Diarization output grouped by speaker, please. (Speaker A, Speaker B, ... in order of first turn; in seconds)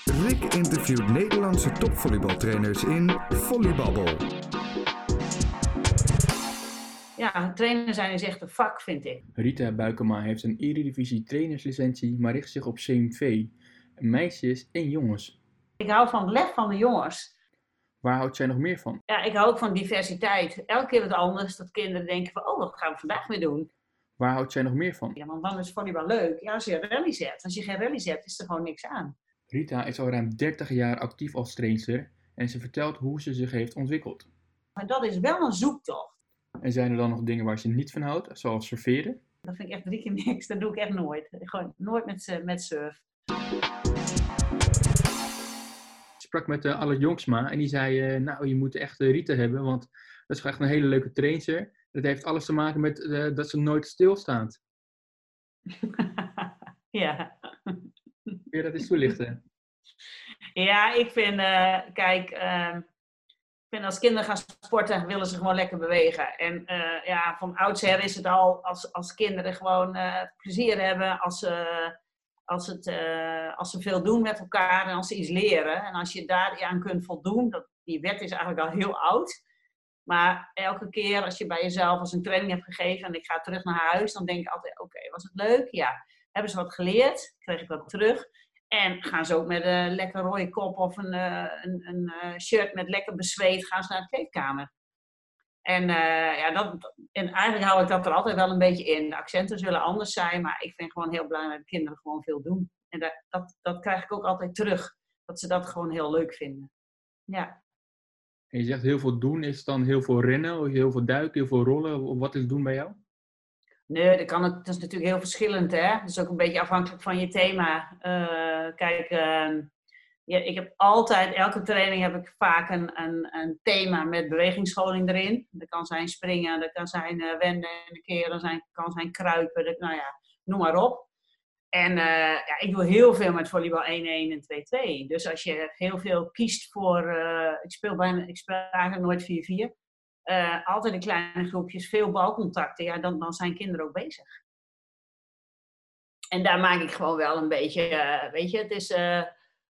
Speaker A: 0.1-4.2
Speaker B: 7.2-9.2, 15.8-17.3, 19.1-23.7, 25.1-29.1, 34.8-36.2, 39.4-43.0, 55.8-57.9, 60.6-62.9, 63.7-72.0, 72.5-79.3, 80.1-94.7, 95.7-106.7, 107.3-107.6, 113.9-119.7, 120.3-131.1, 131.7-139.7, 140.3-144.4, 146.3-149.3
Speaker C: 9.4-15.4, 18.0-19.0, 24.2-25.1, 29.5-34.3, 36.6-39.2, 46.2-54.6, 58.5-59.4, 108.5-113.0